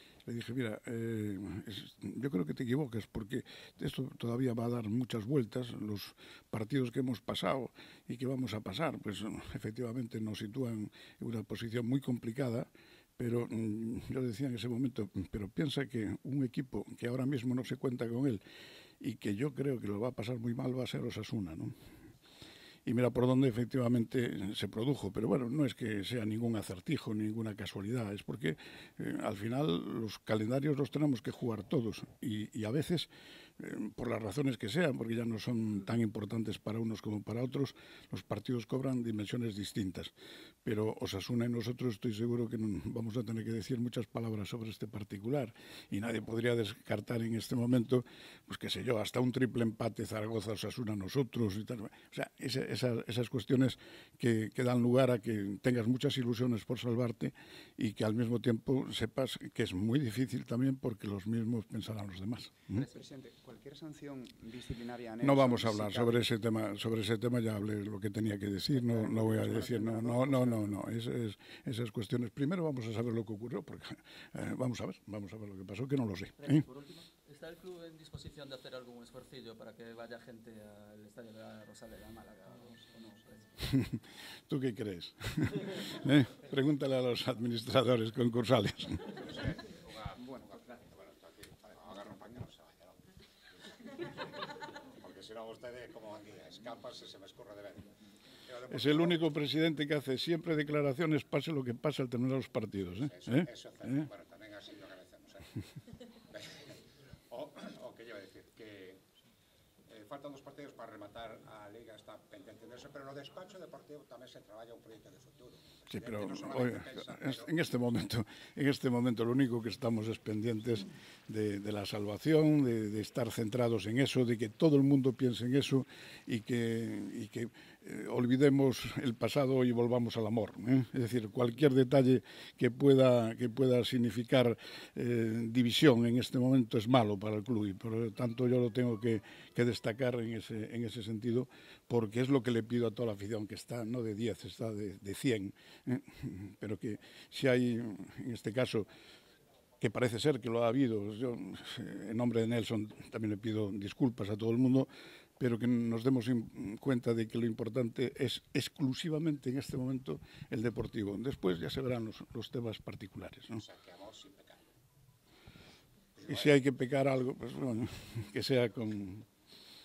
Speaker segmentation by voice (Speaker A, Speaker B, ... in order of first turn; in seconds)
Speaker A: 0.2-18.4, 19.0-21.7, 22.9-40.1, 40.6-62.8, 65.2-76.7, 83.6-89.2, 98.7-104.0, 115.9-148.9, 149.8-163.6, 166.3-169.3
Speaker B: 62.7-66.3, 68.8-70.8
Speaker C: 76.4-83.6
Speaker D: 89.1-93.1, 93.9-94.2, 94.9-97.9, 98.5-99.3, 103.0-105.5, 106.2-106.8, 107.3-109.0, 109.9-117.6, 163.6-164.6, 166.2-166.5